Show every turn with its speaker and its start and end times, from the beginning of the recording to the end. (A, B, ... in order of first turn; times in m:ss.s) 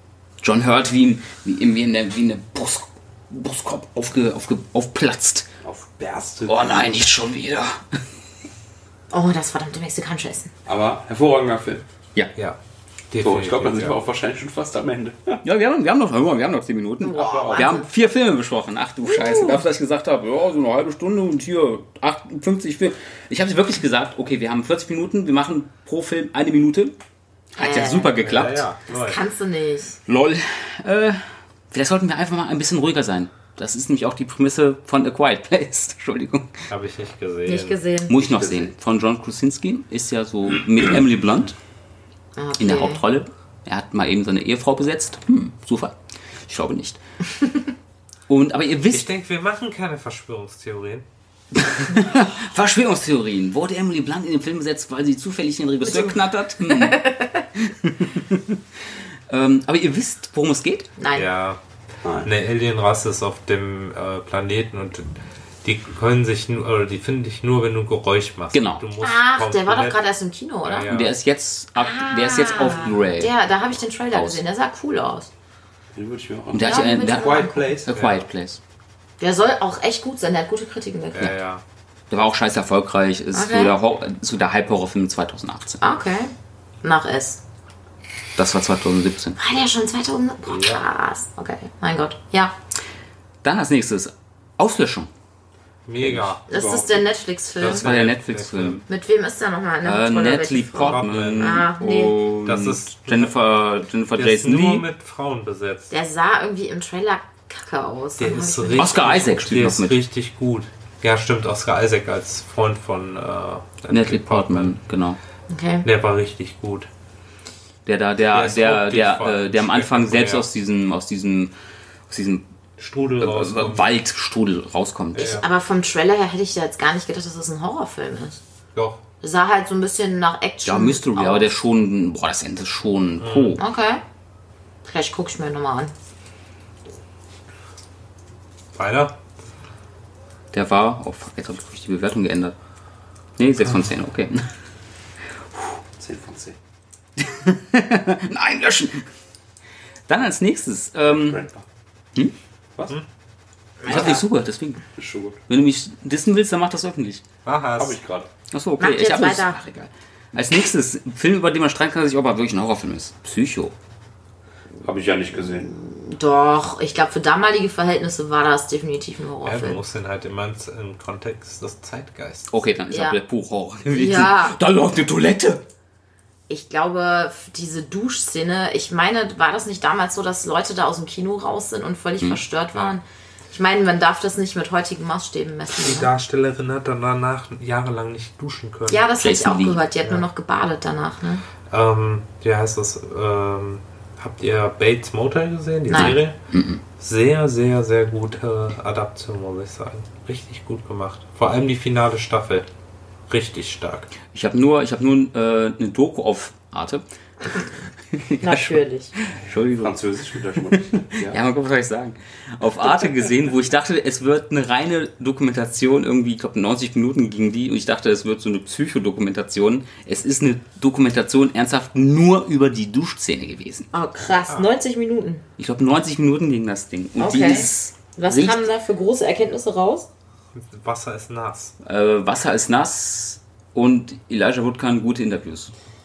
0:00.4-0:05.5 A
0:05.6-0:06.8 B
0:06.5-0:08.0 A
0:09.1-0:10.5 C
0:10.7-0:11.8 B
0:13.1-0:14.0 D
0:13.2-0:15.4 B
0:15.4-0:27.0 A
0:17.0-0:17.9 C
0:17.2-0:17.7 B
0:19.0-0:19.6 C
0:27.5-0:28.7 A
0:27.6-0:28.2 C
0:28.2-0:29.2 D
0:28.9-0:30.0 C
0:30.1-0:36.7 A
0:36.7-0:37.8 D
0:37.5-0:38.2 C
0:38.1-0:41.6 A
0:38.2-0:38.7 B
0:42.4-0:43.0 C
0:42.6-0:46.0 A
0:46.5-0:47.0 A
0:48.3-0:49.1 A
0:48.9-0:51.0 D
0:51.6-0:58.6 A
0:55.9-0:56.2 C
0:56.7-0:57.3 C
0:59.3-1:00.9 A
1:01.0-1:01.3 C
1:01.1-1:01.6 D
1:02.2-1:10.0 D
1:08.5-1:08.9 A
1:09.0-1:10.9 C
1:10.6-1:11.1 D
1:10.9-1:13.3 A
1:11.8-1:15.3 C
1:14.1-1:14.4 A
1:16.0-1:17.9 B
1:16.5-1:18.6 A
1:16.6-1:17.8 C
1:17.9-1:18.2 D
1:19.2-1:21.4 C
1:21.1-1:21.6 D
1:22.1-1:25.8 A
1:23.3-1:23.7 C
1:25.8-1:26.3 C
1:26.8-1:27.4 C
1:28.4-1:29.4 A
1:29.4-1:32.5 C
1:30.5-1:30.8 D
1:33.4-1:35.1 A
1:35.9-1:36.4 D
1:36.0-1:36.3 A
1:36.5-1:37.0 B
1:36.5-1:37.8 C
1:37.6-1:38.8 D
1:37.6-1:38.8 A
1:38.9-1:42.2 C
1:39.8-1:44.9 A
1:40.8-1:41.7 D
1:42.4-1:43.4 D
1:44.2-1:45.9 D
1:45.9-1:49.3 C
1:48.2-1:54.8 D
1:48.8-1:50.0 A
1:53.9-1:55.2 A
1:55.5-1:55.9 C
1:55.8-1:56.9 D
1:57.9-2:01.5 A
1:58.3-2:00.5 D
2:02.1-2:02.4 A
2:02.8-2:03.9 D
2:03.2-2:05.4 A
2:05.2-2:05.5 D
2:05.2-2:08.4 C
2:08.7-2:09.0 D
2:09.2-2:11.5 C
2:10.6-2:13.6 A
2:13.2-2:13.6 D
2:13.6-2:14.0 C
2:14.8-2:15.9 C
2:18.8-2:19.1 D
2:20.5-2:22.6 A
2:23.4-2:24.5 A
2:26.0-2:26.6 B
2:27.2-2:29.1 A
2:30.1-2:31.4 A
2:31.1-2:31.6 B
2:33.8-2:34.2 C
2:33.8-2:34.8 A
2:35.0-2:35.4 B
2:35.5-2:37.2 A
2:37.4-2:38.0 D
2:37.8-2:38.3 B
2:38.5-2:43.7 A
2:38.8-2:39.6 C
2:44.8-2:45.7 B
2:45.6-2:49.8 C
2:49.4-2:52.5 D
2:52.5-2:55.6 A
2:52.9-2:53.2 C
2:53.9-2:54.6 C
2:56.5-3:06.1 C
3:05.8-3:09.1 D
3:08.9-3:11.4 C
3:09.2-3:09.8 A
3:11.7-3:16.4 D
3:15.9-3:16.2 C
3:15.9-3:16.8 A
3:17.0-3:22.7 D
3:23.3-3:24.1 D
3:24.3-3:27.0 A
3:28.1-3:30.0 A
3:28.4-3:29.2 C
3:29.8-3:31.4 B
3:31.1-3:43.9 A
3:43.9-3:45.4 C
3:45.6-3:48.6 A
3:47.2-3:50.1 C
3:50.6-3:51.7 D
3:51.8-3:55.7 A